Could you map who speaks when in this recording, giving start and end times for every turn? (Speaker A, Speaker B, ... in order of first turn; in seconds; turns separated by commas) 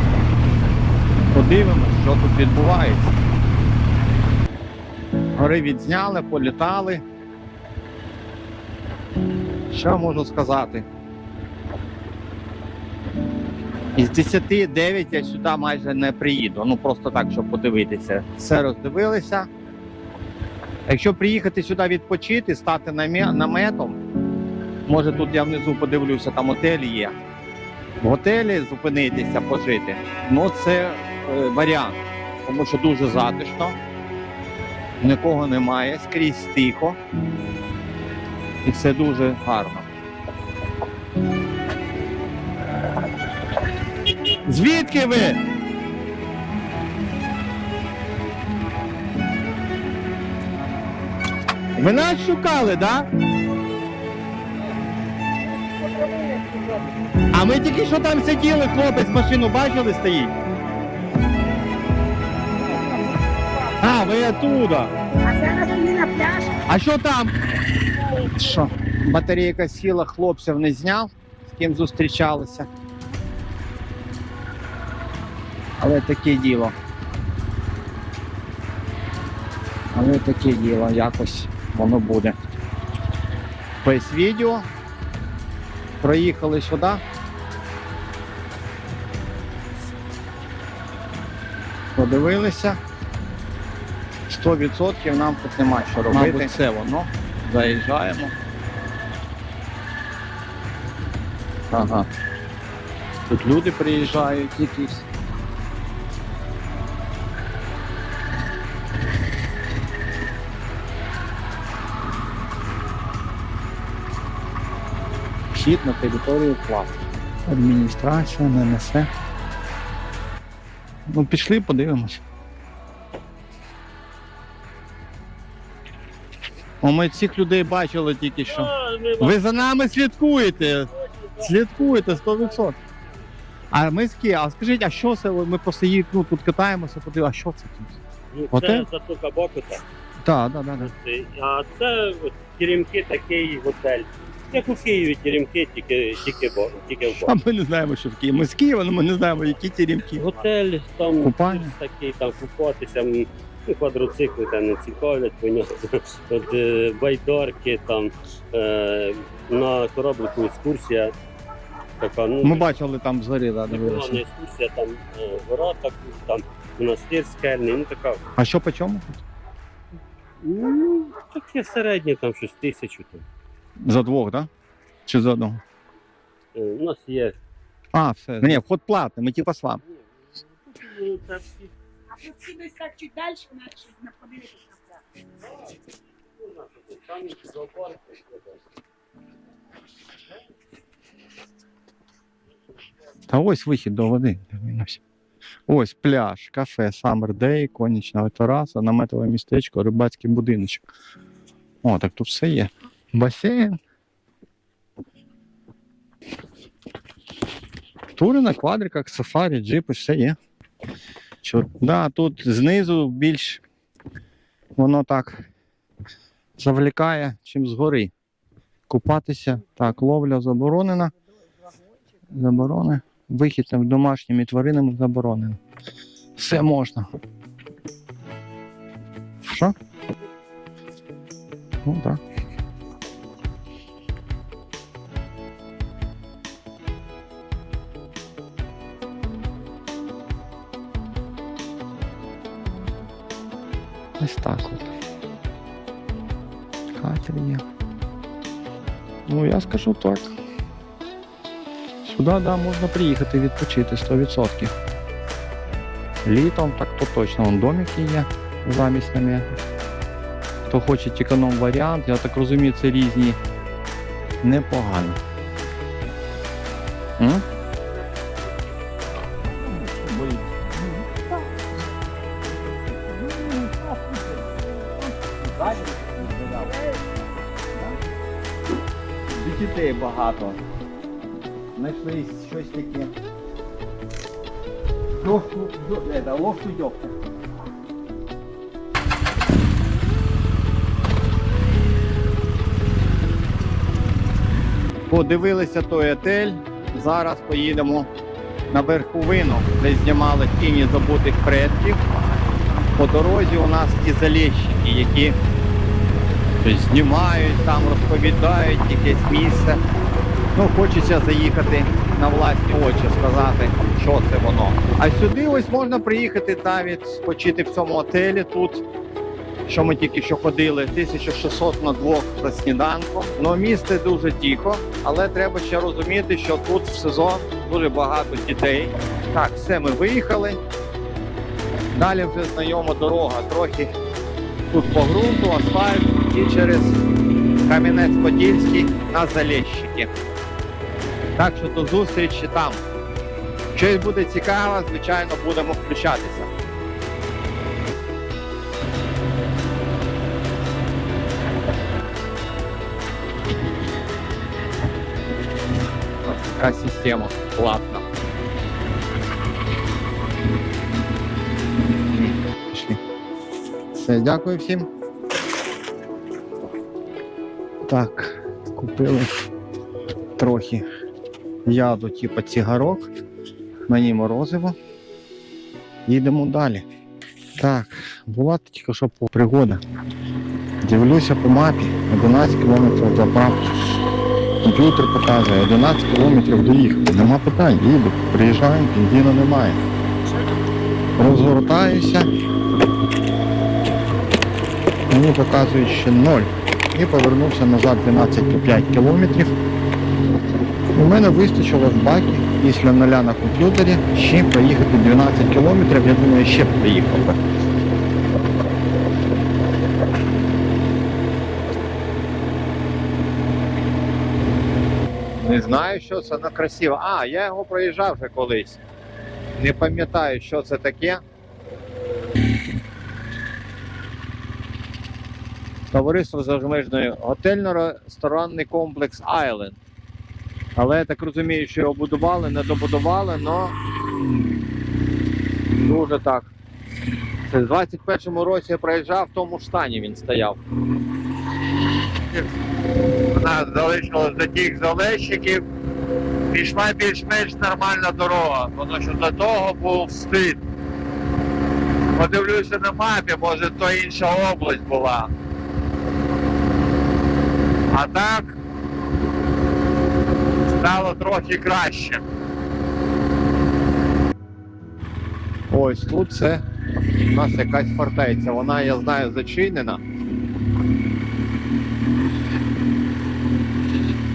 Speaker A: 1.3-3.1, Speaker A: 5.3-7.0, Speaker A: 9.7-10.8, Speaker A: 13.9-19.5, Speaker A: 20.9-24.0, Speaker A: 24.9-27.1, Speaker A: 28.0-33.8, Speaker A: 35.0-37.0, Speaker A: 38.6-39.8, Speaker A: 44.5-45.4, Speaker A: 51.8-53.0, Speaker B: 55.4-56.9, Speaker A: 57.3-60.3, Speaker B: 62.5-64.0, Speaker A: 63.8-64.9, Speaker B: 65.2-66.5, Speaker A: 66.7-67.3, Speaker B: 68.2-68.6, Speaker A: 68.3-72.7, Speaker A: 75.8-76.7, Speaker A: 79.9-82.3, Speaker A: 83.8-84.7, Speaker A: 86.0-87.0, Speaker A: 92.0-92.8, Speaker A: 94.3-98.3, Speaker A: 101.7-102.1, Speaker A: 103.3-105.0, Speaker A: 115.5-119.1, Speaker A: 121.1-122.2, Speaker A: 126.8-128.7, Speaker C: 128.5-129.6, Speaker A: 129.2-130.9, Speaker C: 130.9-132.7, Speaker A: 131.4-132.7, Speaker A: 133.7-138.0, Speaker C: 138.3-139.8, Speaker A: 138.5-138.8, Speaker A: 140.2-140.9, Speaker C: 140.8-147.3, Speaker A: 147.2-150.2, Speaker C: 150.1-161.1, Speaker A: 151.2-151.7, Speaker C: 162.0-162.8, Speaker A: 162.4-164.2, Speaker C: 163.7-168.2, Speaker A: 168.4-169.1, Speaker C: 170.4-173.2, Speaker A: 173.8-174.5, Speaker A: 175.1-175.6, Speaker C: 176.5-177.4, Speaker A: 177.9-179.8, Speaker C: 180.6-181.7, Speaker B: 182.1-185.0, Speaker C: 186.4-188.6, Speaker A: 193.3-195.0, Speaker A: 195.7-200.8, Speaker A: 201.8-203.8, Speaker A: 208.2-210.3, Speaker A: 211.4-213.6, Speaker A: 214.8-215.5, Speaker A: 216.6-218.1, Speaker A: 218.9-221.1, Speaker A: 222.3-225.6, Speaker A: 226.4-227.1, Speaker A: 229.4-229.7, Speaker A: 231.8-232.2, Speaker A: 244.2-244.9, Speaker A: 247.0-247.6, Speaker A: 249.3-250.3, Speaker A: 252.0-254.7, Speaker A: 256.2-259.5, Speaker A: 260.7-263.4, Speaker A: 264.4-265.2, Speaker A: 267.2-267.4, Speaker A: 275.6-275.9, Speaker A: 279.3-280.6, Speaker A: 281.9-283.1, Speaker A: 295.1-298.1, Speaker A: 298.7-302.0, Speaker A: 302.9-305.4, Speaker A: 306.6-309.8, Speaker A: 310.5-318.8, Speaker A: 319.7-330.6, Speaker A: 331.9-333.9, Speaker A: 334.7-337.0, Speaker A: 337.7-340.1, Speaker A: 341.4-342.8, Speaker A: 343.7-346.5, Speaker A: 356.2-358.0, Speaker A: 362.1-363.0, Speaker A: 364.0-364.9, Speaker A: 367.9-369.3, Speaker A: 370.4-370.8, Speaker A: 371.6-373.1, Speaker A: 373.9-374.8, Speaker A: 376.1-376.9, Speaker A: 377.6-379.8, Speaker A: 380.8-383.7, Speaker A: 384.6-389.8, Speaker A: 391.2-392.3, Speaker A: 395.1-399.5, Speaker A: 400.9-407.4, Speaker A: 415.4-418.8, Speaker A: 419.6-421.2, Speaker A: 425.9-429.8, Speaker A: 430.8-433.7, Speaker A: 435.8-436.5, Speaker A: 437.5-440.6, Speaker A: 443.3-445.6, Speaker A: 446.5-450.6, Speaker A: 452.1-455.3, Speaker A: 457.9-458.5, Speaker A: 460.8-462.2, Speaker A: 465.7-466.6, Speaker A: 467.3-470.0